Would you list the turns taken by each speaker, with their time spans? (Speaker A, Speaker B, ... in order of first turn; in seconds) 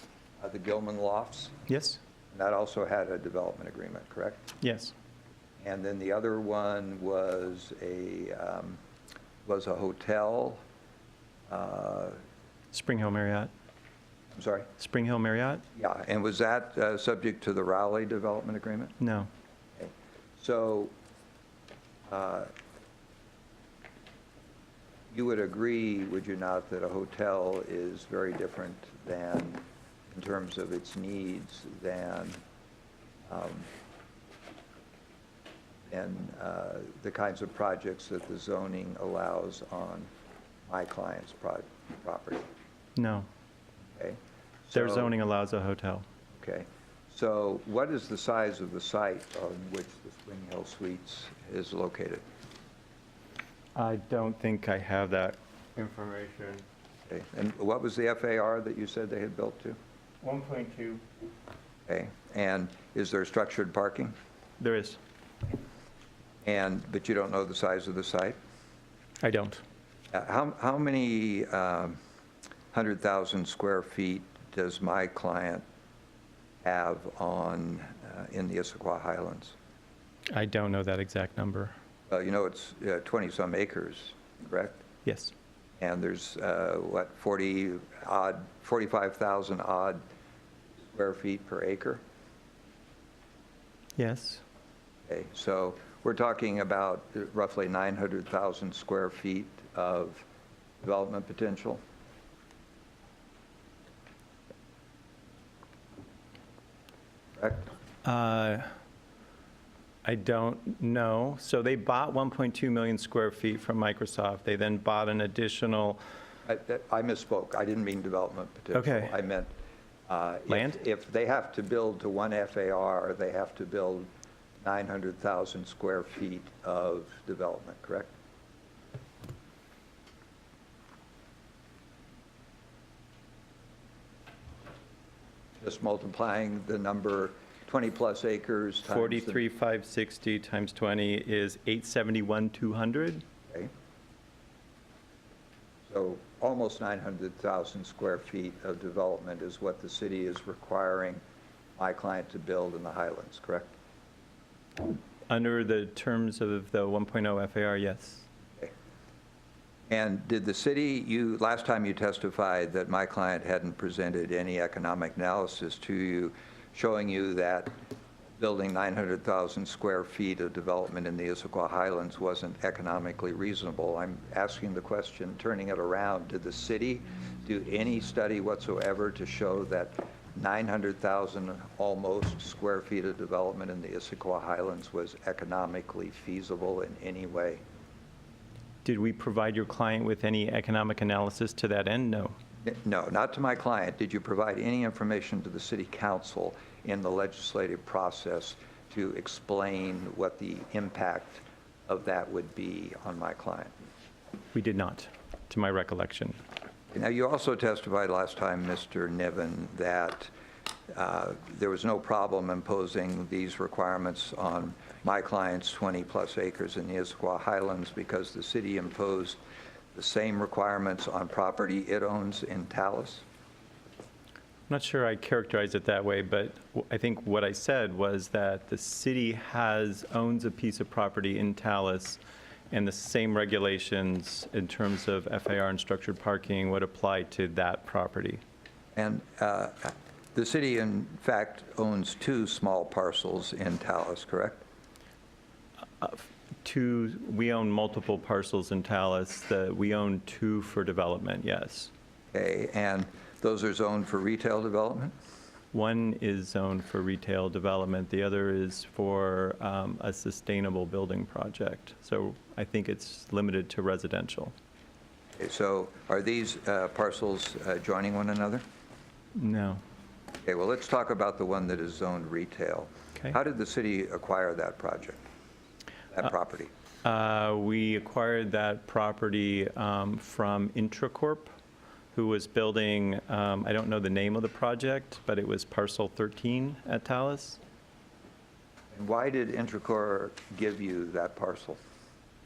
Speaker A: 0.4-1.6, 2.3-4.4, 5.6-8.8, 9.4-10.6, 11.5-12.2, 14.3-14.7, 15.8-19.0, 19.8-20.9, 22.1-22.5, 25.1-32.4, 33.3-33.7, 35.9-40.1, 40.7-42.5, 44.0-45.1, 46.3-52.2, 57.1-59.8, 61.9-64.1, 66.4-68.4, 70.1-72.0, 72.7-75.6, 76.6-79.5, 82.1-84.8, 85.8-90.0, 90.9-92.0, 95.1-100.3, 100.8-101.8, 107.4-107.7, 116.5-119.5, 120.1-124.1, 124.6-128.1, 135.6-139.4, 145.9-151.2, 151.8-153.7, 159.9-167.7, 168.4-187.6, 192.6-203.7, 206.9-210.3, 210.9-219.4, 219.9-223.2, 238.9-244.7, 252.3-255.1, 265.4-268.6, 270.4-275.2, 276.1-276.7, 288.9-291.8
Speaker B: 1.7-2.0, 4.6-4.9, 12.7-13.5, 14.8-15.6, 19.0-19.3, 43.0-43.3, 44.7-46.0, 53.8-56.6, 60.2-61.0, 64.6-65.0, 69.2-69.6, 80.3-81.7, 85.0-85.3, 94.0-94.4, 108.0-108.7, 110.0-116.0, 118.7-119.2, 120.5-120.8, 138.9-143.2, 155.3-158.2, 188.8-192.4, 204.5-206.4, 224.7-232.2, 232.7-238.4, 246.0-251.9, 255.7-264.5, 269.4-269.8, 277.1-281.5, 282.1-287.6